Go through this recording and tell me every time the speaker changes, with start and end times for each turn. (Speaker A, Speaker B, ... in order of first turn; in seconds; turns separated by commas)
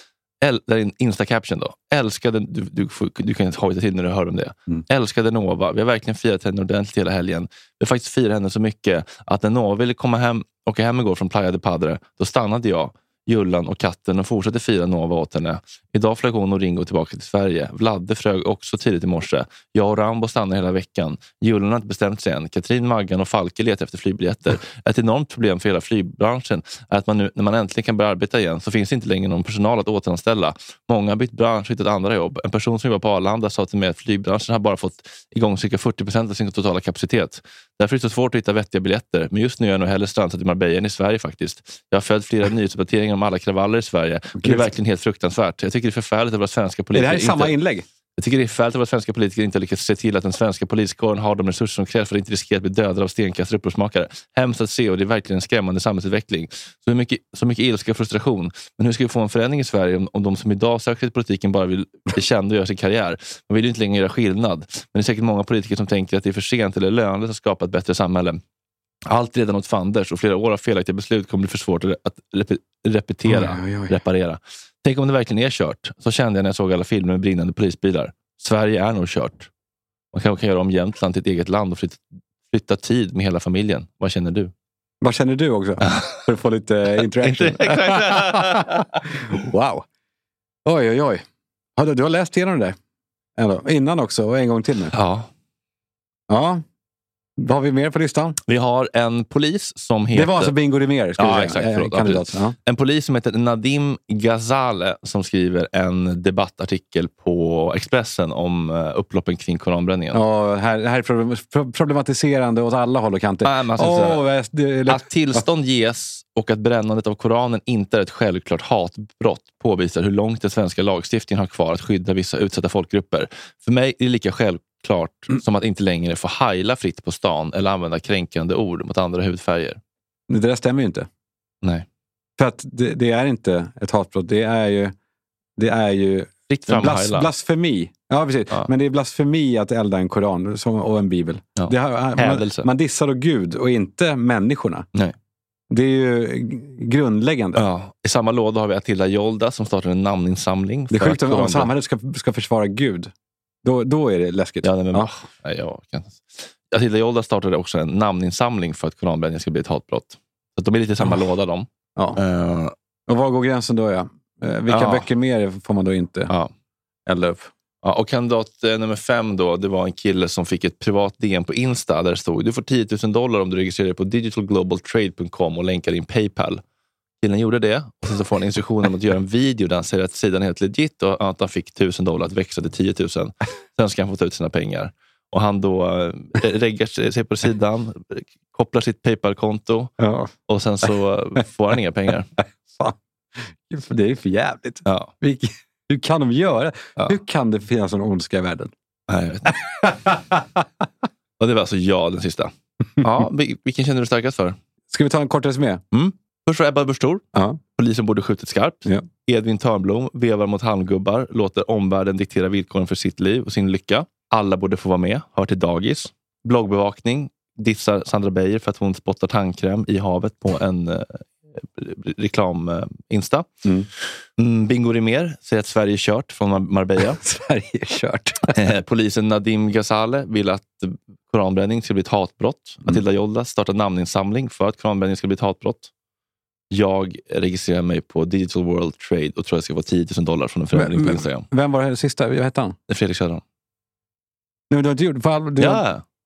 Speaker A: 0.4-47.5, Speaker B: 44.4-44.7, Speaker B: 46.9-47.8, Speaker A: 48.2-68.4, Speaker A: 69.1-79.5, Speaker B: 73.3-74.0, Speaker A: 80.1-84.5, Speaker B: 85.0-89.8, Speaker A: 87.2-88.8, Speaker B: 90.6-91.2, Speaker B: 91.8-92.8, Speaker B: 93.4-94.9, Speaker A: 94.9-95.3, Speaker B: 96.3-96.6, Speaker B: 97.4-98.4, Speaker A: 98.5-100.5, Speaker B: 100.1-102.5, Speaker A: 101.2-110.2, Speaker B: 110.1-115.4, Speaker A: 113.4-114.2, Speaker A: 114.9-129.8, Speaker B: 130.3-131.1, Speaker B: 132.4-134.9, Speaker B: 135.6-144.8, Speaker A: 136.5-137.3, Speaker A: 141.6-142.7, Speaker B: 145.7-147.6, Speaker A: 147.6-151.7, Speaker B: 150.9-153.1, Speaker B: 153.6-155.1, Speaker A: 154.6-162.7, Speaker B: 161.0-161.2, Speaker B: 163.1-166.3, Speaker A: 164.7-165.1, Speaker B: 167.1-167.5, Speaker A: 167.8-176.6, Speaker A: 177.2-189.9, Speaker B: 190.0-190.3, Speaker A: 190.5-192.3, Speaker B: 192.4-192.9, Speaker B: 193.7-198.7, Speaker A: 194.8-195.1, Speaker A: 199.1-200.0, Speaker B: 199.5-200.6, Speaker A: 201.4-204.6, Speaker B: 204.9-205.8, Speaker A: 205.9-207.2, Speaker B: 207.3-207.6, Speaker A: 207.8-223.5, Speaker A: 224.4-227.2, Speaker B: 227.2-228.5, Speaker A: 228.5-235.9, Speaker A: 236.7-241.4, Speaker B: 240.7-242.8, Speaker A: 242.9-243.4, Speaker B: 244.7-245.8, Speaker A: 245.6-246.0